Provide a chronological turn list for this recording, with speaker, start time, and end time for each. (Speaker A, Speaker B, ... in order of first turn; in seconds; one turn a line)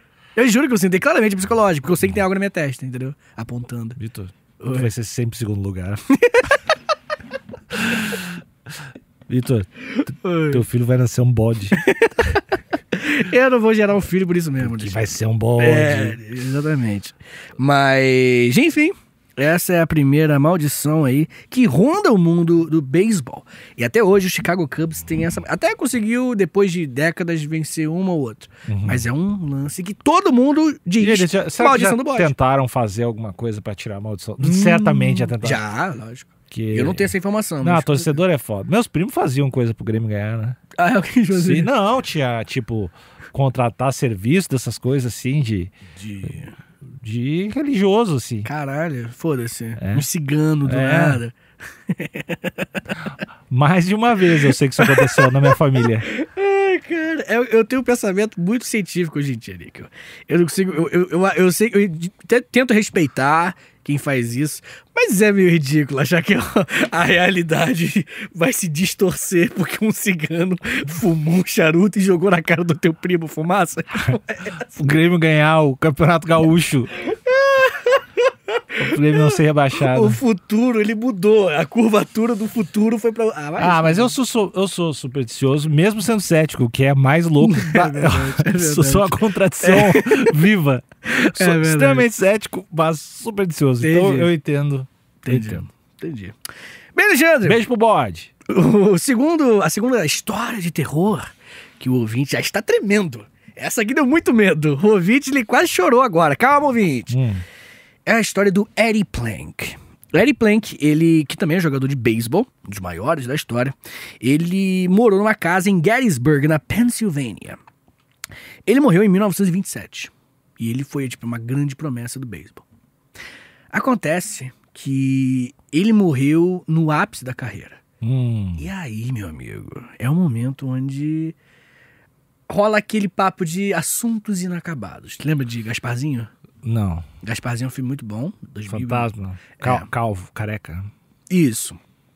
Speaker A: 0.4-4.0
Speaker B: 4.0-6.0
Speaker A: 4.6-4.9
Speaker A: 6.1-6.6
Speaker B: 7.7-8.3
Speaker B: 9.3-11.8
Speaker A: 10.2-10.6
Speaker A: 11.8-32.3
Speaker B: 14.6-16.2
Speaker B: 28.7-29.1
Speaker B: 31.0-35.6
Speaker A: 34.4-38.2
Speaker B: 36.5-40.6
Speaker A: 40.8-41.7
Speaker B: 41.3-45.7
Speaker A: 46.0-46.6
Speaker B: 47.0-48.5
Speaker A: 48.5-51.4
Speaker B: 49.8-50.1
Speaker B: 50.6-51.2
Speaker A: 51.9-52.8
Speaker B: 53.5-56.1
Speaker A: 54.8-74.7
Speaker B: 74.7-76.9
Speaker A: 77.1-78.1
Speaker A: 78.7-84.1
Speaker B: 78.8-80.2
Speaker B: 83.6-95.6
Speaker A: 87.4-90.3
Speaker A: 91.1-92.1
Speaker A: 93.8-94.3
Speaker A: 95.2-96.4
Speaker A: 97.0-97.6
Speaker B: 97.4-98.3
Speaker A: 98.5-107.2
Speaker B: 107.1-107.4
Speaker A: 108.1-117.6
Speaker A: 118.7-122.7
Speaker A: 123.7-127.8
Speaker B: 128.0-128.7
Speaker A: 128.6-131.4
Speaker A: 132.5-136.3
Speaker B: 136.6-137.1
Speaker A: 137.2-139.9
Speaker B: 138.7-140.9
Speaker A: 141.3-141.8